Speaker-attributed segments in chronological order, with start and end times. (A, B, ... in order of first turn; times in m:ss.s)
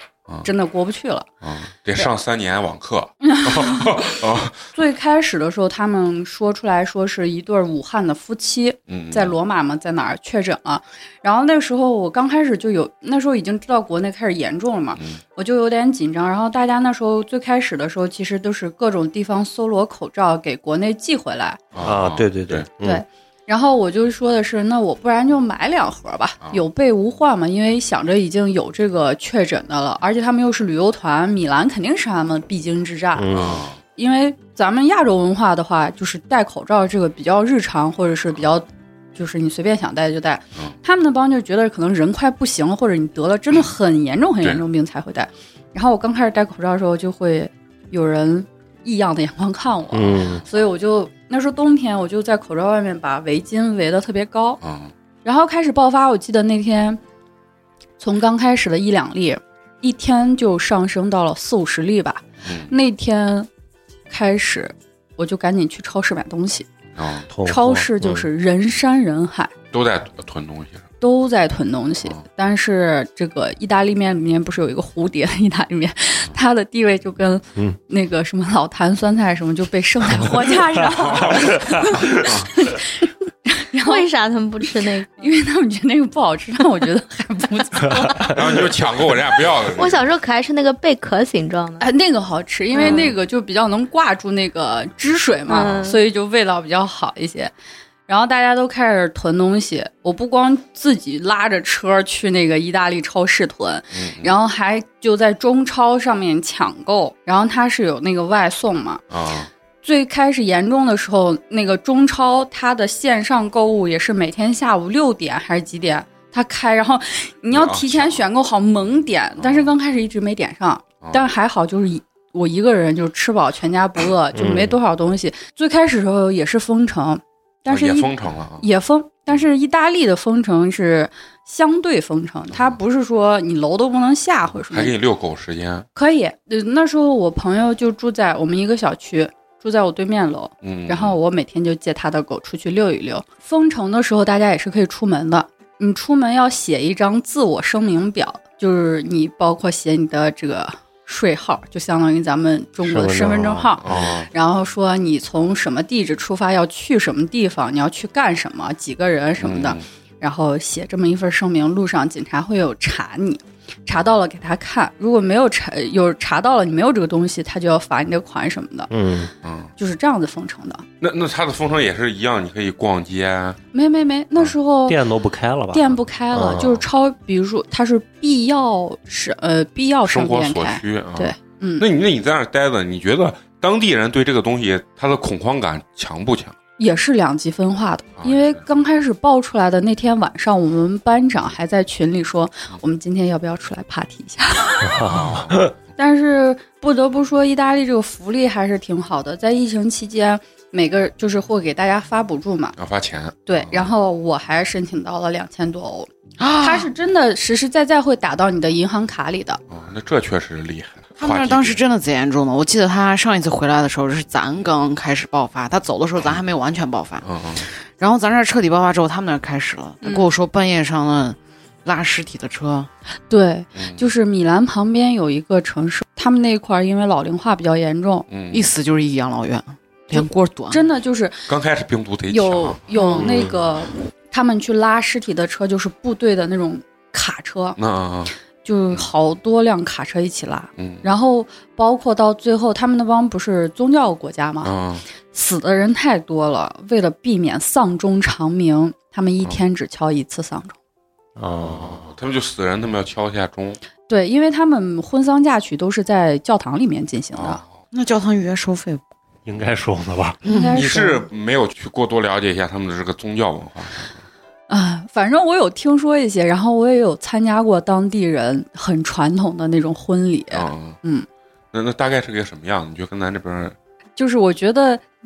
0:00.4-0:01.3 A
0:01.4-0:04.6 B
0:03.2-0:04.2 A
0:04.7-0:21.6 A
0:08.9-0:09.4 B
0:21.7-0:22.7 B
0:21.8-0:23.0 C
0:22.8-0:33.4 A
0:33.2-0:33.6 C
0:33.3-0:33.8 B
0:34.0-0:54.6 A
0:49.9-0:50.4 C
0:54.6-0:54.9 B
0:55.2-0:57.0 A
0:58.0-1:03.5 A
1:02.4-1:02.7 B
1:04.1-1:06.7 A
1:07.0-1:07.3 B
1:07.3-1:08.3 C
1:07.4-1:09.5 A
1:09.7-1:10.9 B
1:11.0-1:24.1 A
1:20.8-1:22.5 B
1:23.8-1:25.2 D
1:25.2-1:28.6 A
1:28.3-1:30.1 B
1:29.7-1:31.9 D
1:31.8-1:37.5 A
1:32.8-1:33.1 D
1:35.5-1:36.0 D
1:38.1-1:49.0 A
1:43.9-1:44.3 B
1:49.1-1:49.5 B
1:49.8-2:14.9 A
1:57.5-1:58.3 B
1:59.4-1:59.7 B
2:04.4-2:04.8 C
2:07.7-2:08.6 B
2:14.7-2:15.9 B
2:16.0-2:48.9 A
2:20.6-2:21.2 B
2:32.8-2:33.7 C
2:33.8-2:34.3 B
2:39.4-2:39.8 B
2:48.9-2:49.3 C
2:49.4-2:49.7 B
2:49.8-2:50.8 A
2:51.0-2:53.6 B
2:53.7-2:55.0 A
2:54.9-2:56.8 C
2:55.7-3:01.9 A
3:00.1-3:06.6 B
3:06.8-3:15.1 A
3:08.2-3:08.6 B
3:14.9-3:15.7 C
3:15.0-3:15.7 B
3:16.0-3:22.8 A
3:22.8-3:23.9 B
3:23.5-3:29.6 A
3:26.4-3:26.9 E
3:29.7-3:31.8 B
3:31.2-3:42.9 E
3:37.2-3:37.7 B
3:43.3-3:48.3 A
3:43.8-3:44.1 B
3:48.3-3:48.7 B
3:48.5-3:50.8 E
3:50.1-3:51.5 A
3:51.5-3:53.4 B
3:52.3-3:57.8 A
3:53.2-3:53.6 C
3:57.8-3:58.3 B
3:58.6-4:04.7 A
4:00.8-4:01.1 B
4:04.6-4:05.0 B
4:05.3-4:10.8 A
4:11.4-4:12.1 C
4:11.6-4:13.8 B
4:14.1-4:17.6 A
4:17.4-4:17.7 B
4:17.9-4:19.0 E
4:19.4-4:20.4 C
4:20.4-4:21.3 A
4:20.5-4:20.8 E
4:20.7-4:24.2 B
4:24.7-4:31.3 A
4:30.5-4:31.0 B
4:31.7-4:33.8 B
4:34.2-4:35.0 A